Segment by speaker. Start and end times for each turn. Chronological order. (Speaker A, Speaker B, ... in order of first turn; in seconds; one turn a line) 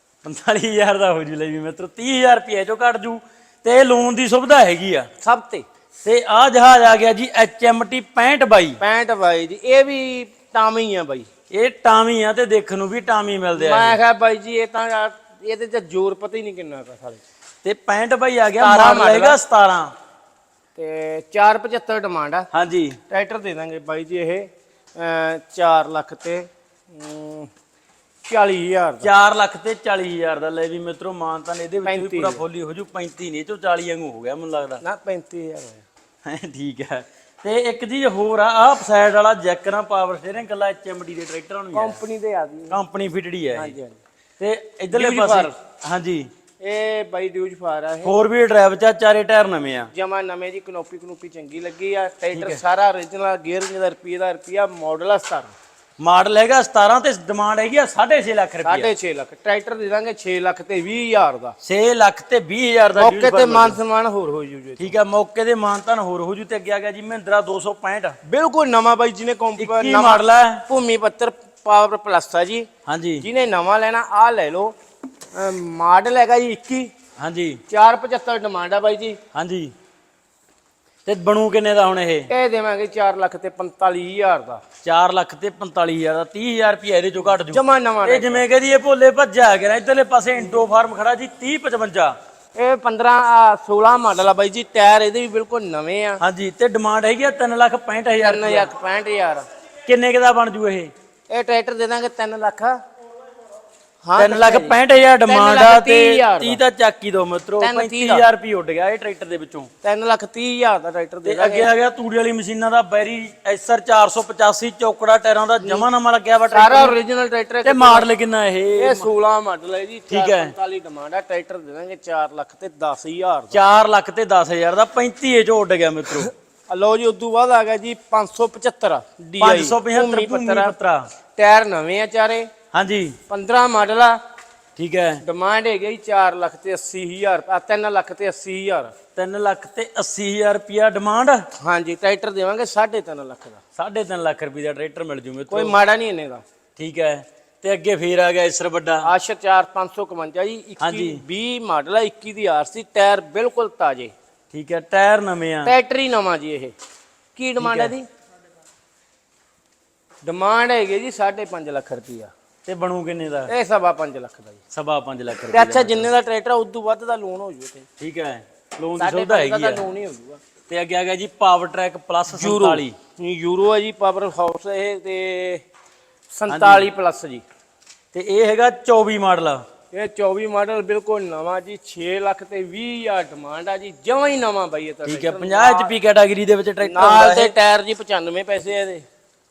Speaker A: 0.2-5.1
Speaker B: 5.2-5.6
Speaker A: 6.0-8.8
Speaker B: 8.8-11.3
Speaker A: 11.5-14.0
Speaker B: 13.5-17.2
Speaker A: 17.6-19.9
Speaker B: 18.6-19.4
Speaker B: 20.7-22.5
Speaker A: 22.5-23.0
Speaker B: 23.1-27.5
Speaker B: 28.2-29.1
Speaker A: 29.0-34.8
Speaker B: 31.8-32.4
Speaker B: 34.8-35.8
Speaker A: 36.2-42.0
Speaker B: 41.7-42.8
Speaker A: 42.7-43.7
Speaker B: 43.5-44.0
Speaker A: 44.4-46.3
Speaker B: 44.9-45.5
Speaker B: 46.6-48.1
Speaker A: 48.0-49.9
Speaker B: 49.9-55.5
Speaker A: 52.3-52.6
Speaker A: 56.0-58.9
Speaker B: 58.6-61.5
Speaker A: 61.6-63.8
Speaker B: 63.0-65.0
Speaker A: 64.8-68.2
Speaker B: 68.2-72.7
Speaker A: 69.6-70.6
Speaker A: 72.8-73.2
Speaker B: 73.2-74.7
Speaker B: 75.3-76.9
Speaker A: 77.2-77.6
Speaker B: 77.7-79.2
Speaker A: 79.3-79.7
Speaker A: 81.0-82.3
Speaker B: 82.3-84.6
Speaker A: 84.8-92.1
Speaker B: 87.4-88.4
Speaker B: 92.5-96.2
Speaker A: 96.2-98.7
Speaker B: 98.2-99.4
Speaker A: 99.8-100.9
Speaker B: 101.3-102.8
Speaker B: 104.0-106.6
Speaker A: 104.2-109.7
Speaker B: 107.6-108.2
Speaker B: 109.8-111.7
Speaker A: 111.2-117.0
Speaker B: 115.6-115.9
Speaker B: 116.5-118.1
Speaker A: 117.6-119.1
Speaker B: 118.8-123.6
Speaker A: 120.1-120.5
Speaker A: 123.5-126.3
Speaker B: 126.7-130.7
Speaker A: 129.4-131.1
Speaker B: 131.3-132.5
Speaker A: 132.7-133.2
Speaker B: 133.3-134.2
Speaker A: 134.8-135.2
Speaker B: 135.2-138.9
Speaker A: 139.2-141.4
Speaker B: 141.6-143.6
Speaker A: 143.8-145.7
Speaker B: 145.5-146.4
Speaker A: 146.8-149.1
Speaker B: 149.0-154.1
Speaker A: 150.8-151.2
Speaker A: 154.5-155.7
Speaker B: 155.6-156.7
Speaker B: 157.3-158.1
Speaker A: 157.6-157.9
Speaker B: 160.2-162.3
Speaker A: 162.7-163.5
Speaker B: 163.5-164.6
Speaker A: 164.7-166.1
Speaker B: 165.5-167.8
Speaker A: 168.0-169.8
Speaker B: 169.0-170.4
Speaker A: 170.7-172.9
Speaker B: 172.3-175.6
Speaker B: 176.3-177.4
Speaker A: 176.5-176.9
Speaker A: 178.1-179.6
Speaker B: 179.9-185.9
Speaker A: 185.1-187.5
Speaker B: 186.8-189.0